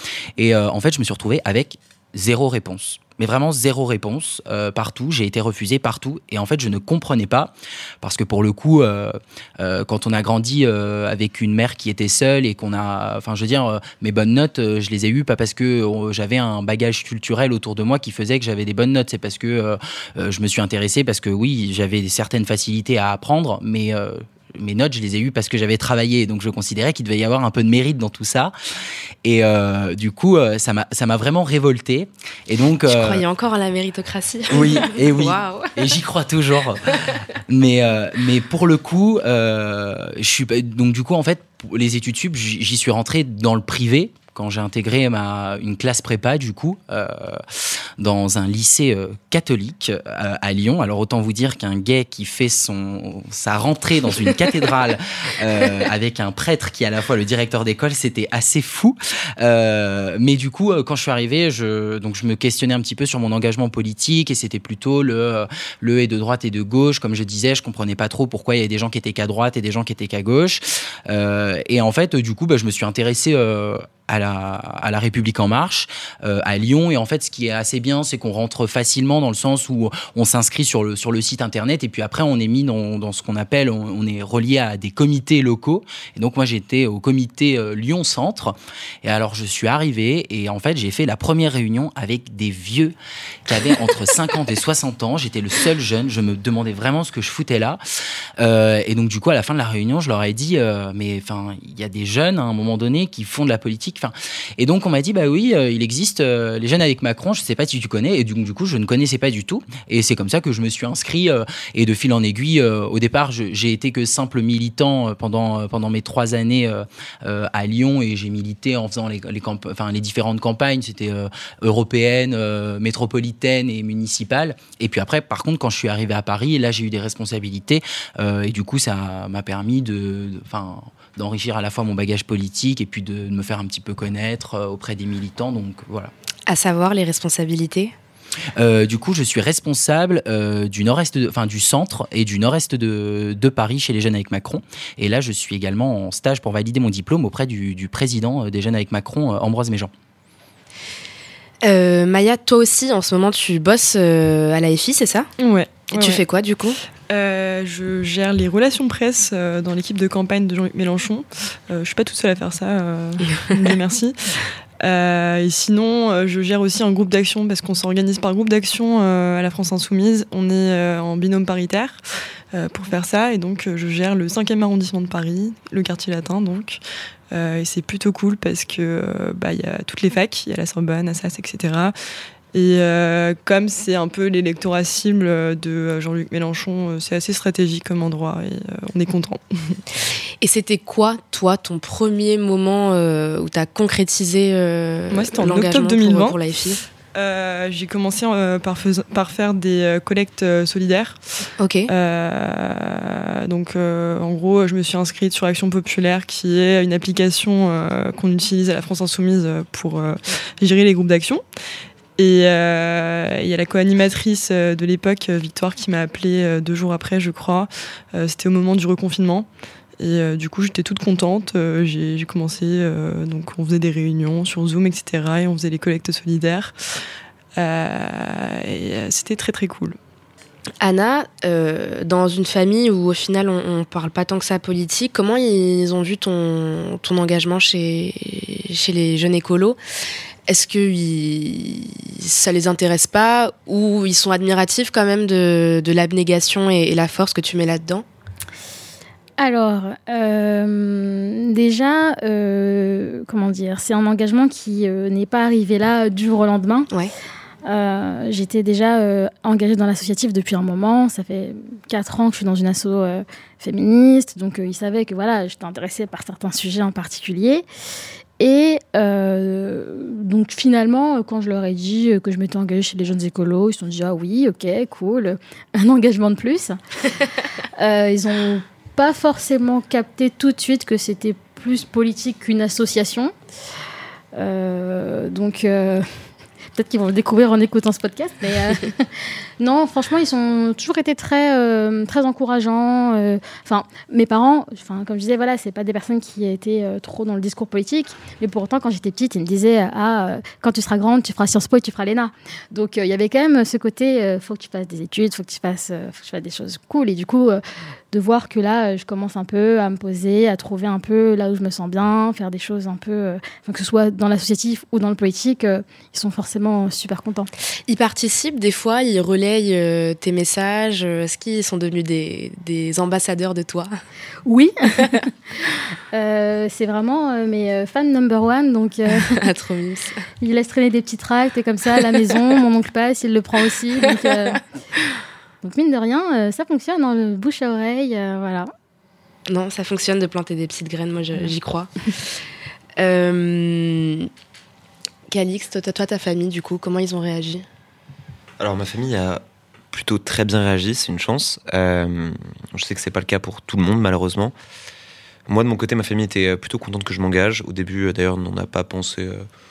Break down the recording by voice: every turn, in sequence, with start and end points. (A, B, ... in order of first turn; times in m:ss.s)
0:00.4-0:28.5 A
0:29.2-0:33.2 A
0:32.8-0:35.8 B
0:34.5-1:32.9 A
1:33.4-1:37.8 A
1:38.4-2:16.1 A
2:16.5-2:17.9 B
2:18.6-2:29.9 A
2:31.6-2:35.3 B
2:35.4-2:36.2 C
2:35.9-2:36.8 B
2:37.1-3:01.9 C
3:02.5-3:09.8 C
3:10.4-3:16.8 B
3:15.1-3:16.4 C
3:17.1-3:21.2 C
3:21.6-3:21.9 B
3:21.9-3:31.4 C
3:32.2-3:39.5 C
3:40.0-3:46.8 C
3:47.6-3:50.0 C
3:50.8-3:59.8 B
4:00.5-4:08.0 B
4:09.4-4:16.9 D
4:17.6-4:27.6 D
4:28.4-4:36.8 D
4:37.8-4:43.3 D
4:44.3-4:46.0 D
4:46.7-4:49.1 D
4:49.6-5:07.6 D
5:08.1-5:17.5 D
5:17.9-5:23.9 B
5:24.4-5:25.3 D
5:26.1-5:29.4 D
5:29.2-5:30.2 B
5:30.4-5:34.6 D
5:35.6-5:38.7 D
5:39.5-5:42.4 B
5:43.0-5:44.3 B
5:45.3-5:47.6 B
5:48.6-5:54.5 E
5:55.5-5:59.4 E